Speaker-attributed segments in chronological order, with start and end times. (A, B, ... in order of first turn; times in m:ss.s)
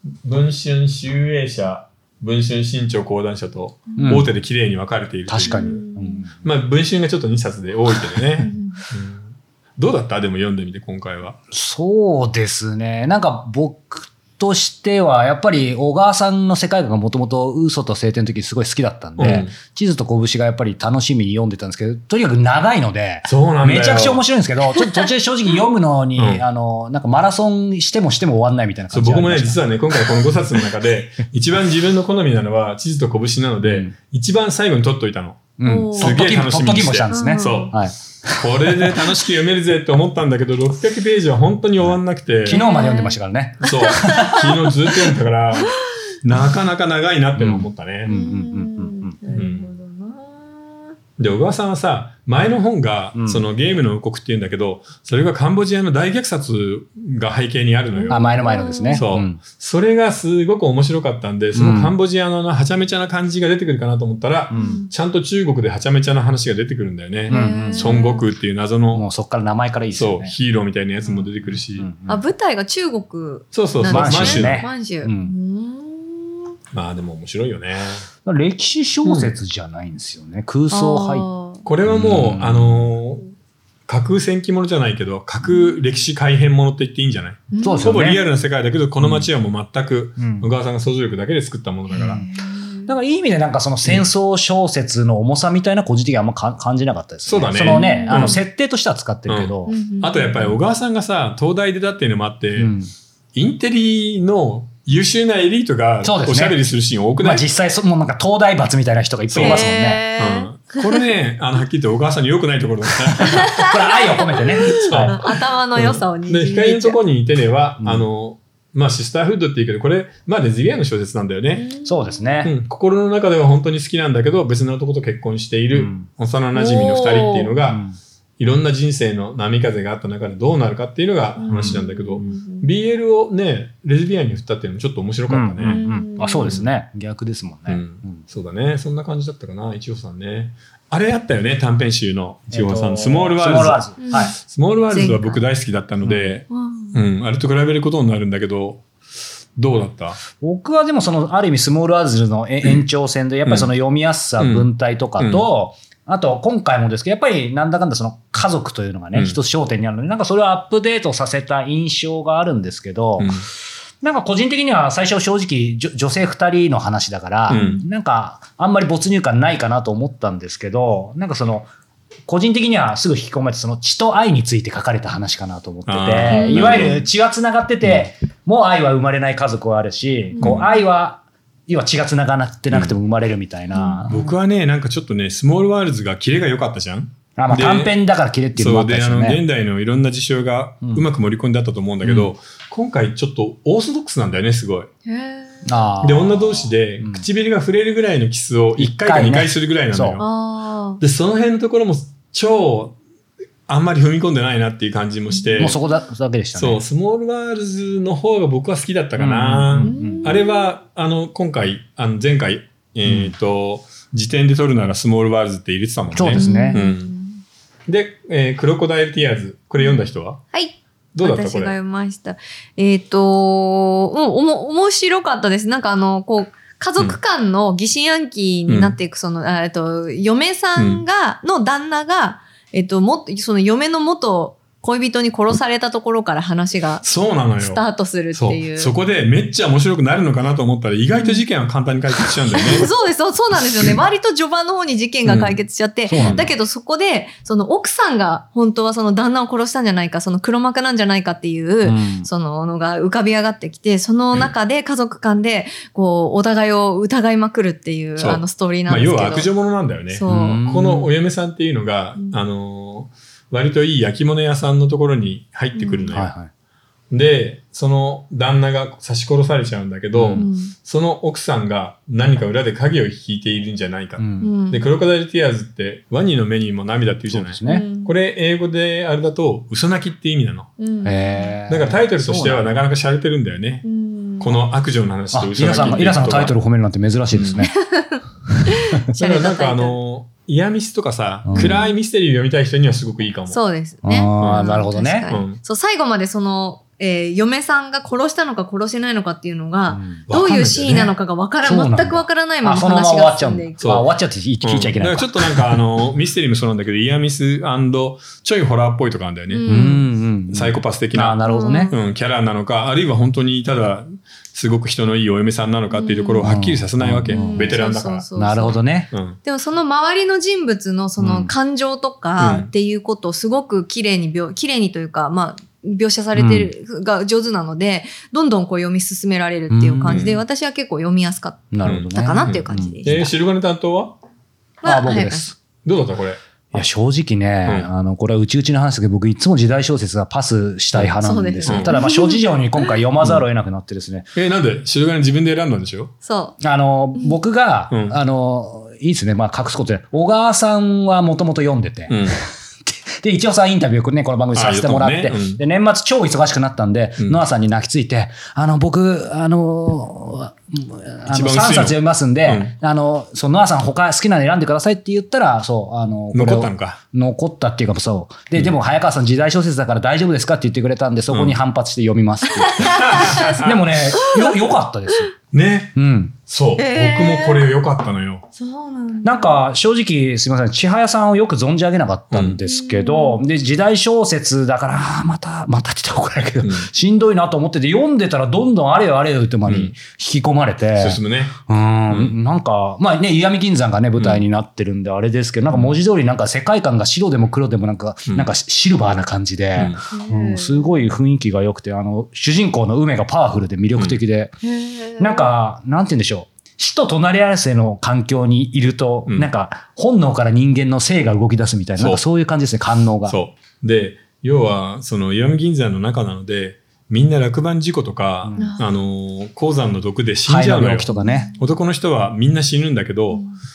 0:00.2-0:05.8 A
0:03.9-0:04.2 B
0:04.0-0:04.3 C
0:05.3-0:06.4 C
0:05.4-0:06.3 B
0:06.4-0:11.4 A
0:07.9-0:08.2 C
0:08.4-0:08.8 B
0:11.5-0:30.2 C
0:19.2-0:19.5 A
0:23.3-0:24.2 A
0:26.2-0:26.4 A
0:28.9-0:37.8 A
0:33.6-0:33.9 C
0:35.6-0:39.1 C
0:35.6-0:36.2 B
0:37.1-0:37.7 B
0:38.3-0:42.6 A
0:41.8-0:44.7 C
0:42.5-0:45.8 B
0:43.6-0:48.1 A
0:47.4-0:49.2 C
0:48.1-0:50.9 B
0:49.3-0:49.7 A
0:51.2-0:58.2 A
0:53.1-0:53.4 C
0:57.9-0:59.0 B
0:58.1-0:59.4 C
0:58.9-1:09.1 A
1:01.5-1:01.9 C
1:04.5-1:04.8 C
1:04.5-1:04.9 B
1:07.3-1:08.2 B
1:07.3-1:08.0 C
1:08.9-1:10.3 C
1:09.9-1:11.9 A
1:11.5-1:12.2 C
1:12.1-1:16.4 B
1:13.5-1:14.6 A
1:13.9-1:15.3 C
1:16.7-1:18.1 A
1:18.2-1:21.2 C
1:19.0-1:19.3 A
1:20.7-1:21.6 B
1:21.6-1:23.3 A
1:21.8-1:23.0 C
1:23.9-1:32.2 A
1:25.4-1:26.1 B
1:27.5-1:28.2 B
1:27.6-1:28.2 C
1:29.0-1:29.3 C
1:30.2-1:30.5 C
1:31.9-1:32.2 C
1:32.0-1:32.9 B
1:32.9-1:39.8 C
1:37.2-1:38.4 A
1:37.7-1:38.4 B
1:39.3-1:42.7 A
1:39.7-1:40.6 B
1:42.6-1:42.9 C
1:43.3-1:47.4 A
1:46.0-1:46.6 C
1:47.2-1:50.0 C
1:49.3-1:53.7 A
1:49.4-1:51.0 B
1:53.1-1:55.2 C
1:53.2-1:57.0 B
1:54.6-2:01.7 A
2:01.5-2:02.5 B
2:01.8-2:02.5 C
2:02.4-2:07.8 A
2:05.7-2:06.1 C
2:06.5-2:07.5 B
2:07.7-2:08.0 C
2:08.4-2:15.8 A
2:11.4-2:12.7 B
2:15.3-2:18.2 C
2:15.6-2:16.6 B
2:16.4-2:16.7 A
2:17.7-2:28.8 A
2:22.5-2:24.3 C
2:24.0-2:24.4 B
2:24.9-2:25.4 B
2:26.0-2:26.4 C
2:26.5-2:27.0 B
2:29.6-2:30.2 A
2:30.3-2:43.4 C
2:33.4-2:33.7 A
2:34.4-2:35.4 A
2:43.2-2:43.4 A
2:44.0-2:51.7 C
2:47.5-2:47.8 A
2:47.5-2:47.8 B
2:52.2-3:04.4 C
2:55.9-2:57.0 A
2:56.3-2:57.0 B
3:00.3-3:00.7 B
3:00.4-3:00.7 A
3:03.7-3:04.0 B
3:04.1-3:07.9 A
3:07.4-3:09.4 C
3:08.6-3:14.9 A
3:12.0-3:12.3 C
3:15.0-3:15.7 B
3:15.6-3:17.2 C
3:16.0-3:20.3 A
3:18.8-3:20.2 C
3:20.2-3:21.0 B
3:21.0-3:23.0 A
3:23.7-3:25.8 A
3:25.3-3:26.0 B
3:25.6-3:26.8 C
3:26.6-3:37.1 A
3:29.2-3:30.4 C
3:29.8-3:30.7 B
3:33.0-3:33.3 C
3:36.1-3:36.8 C
3:36.3-3:37.4 B
3:37.9-3:40.4 A
3:39.8-3:57.0 B
3:41.1-3:41.7 A
3:48.7-3:48.9 A
3:50.8-3:51.0 A
3:57.0-4:02.9 A
3:57.6-3:58.9 B
4:01.1-4:01.4 B
4:02.6-4:19.5 B
4:05.2-4:05.6 A
4:06.1-4:06.5 C
4:06.2-4:06.5 A
4:11.8-4:12.3 C
4:18.2-4:26.3 A
4:20.1-4:20.6 B
4:20.3-4:21.1 C
4:25.7-4:26.2 B
4:26.1-4:26.5 C
4:27.1-4:40.7 A
4:30.1-4:30.5 C
4:30.4-4:30.7 B
4:34.2-4:34.5 C
4:34.4-4:34.9 B
4:37.3-4:37.9 C
4:37.6-4:38.1 B
4:40.8-4:41.6 B
4:41.0-4:42.7 C
4:41.7-4:43.8 A
4:43.8-4:44.6 B
4:44.4-4:46.6 A
4:45.3-4:47.7 C
4:47.3-4:47.6 A
4:47.7-4:50.0 B
4:49.1-4:53.6 A
4:51.4-4:51.8 C
4:51.5-4:51.9 B
4:53.5-5:03.8 B
4:54.0-4:55.3 C
4:54.4-4:55.6 A
4:59.9-5:00.2 C
5:00.3-5:01.1 A
5:01.6-5:05.8 C
5:03.8-5:04.1 A
5:04.6-5:09.7 A
5:09.5-5:10.0 B
5:09.7-5:11.9 C
5:10.5-5:18.2 A
5:11.4-5:12.0 B
5:15.9-5:16.4 B
5:16.4-5:17.8 C
5:17.3-5:18.8 B
5:18.4-5:19.1 C
5:19.1-5:19.4 A
5:19.4-5:33.3 B
5:21.2-5:21.5 C
5:22.4-5:22.7 A
5:26.3-5:26.7 C
5:29.7-5:30.2 C
5:30.0-5:30.4 A
5:31.7-5:33.3 C
5:31.8-5:34.2 A
5:34.8-5:35.5 B
5:34.8-5:35.6 C
5:35.8-5:36.4 A
5:36.7-5:44.3 C
5:41.2-5:43.0 B
5:41.6-5:41.9 A
5:44.3-5:46.1 A
5:46.2-5:46.6 B
5:46.6-6:15.3 C
5:47.9-5:48.2 A
5:52.1-5:52.4 A
5:54.5-5:55.6 A
6:01.3-6:02.7 A
6:06.3-6:07.0 A
6:11.3-6:11.6 A
6:12.5-6:15.3 B
6:12.8-6:13.8 A
6:15.5-6:16.0 A
6:16.0-6:16.4 C
6:16.5-6:18.4 A
6:16.8-6:17.7 B
6:18.6-6:19.6 B
6:19.2-6:44.5 C
6:22.3-6:22.6 A
6:22.6-6:23.4 B
6:26.6-6:26.9 A
6:29.6-6:29.9 A
6:31.0-6:32.3 A
6:34.2-6:34.4 A
6:35.7-6:36.0 A
6:39.7-6:40.0 A
6:40.1-6:41.0 B
6:44.6-6:45.5 B
6:45.2-6:53.4 C
6:52.0-6:52.2 A
6:53.2-7:03.4 A
6:58.4-6:58.7 C
6:58.6-6:58.9 B
7:00.4-7:01.5 C
7:01.1-7:01.6 B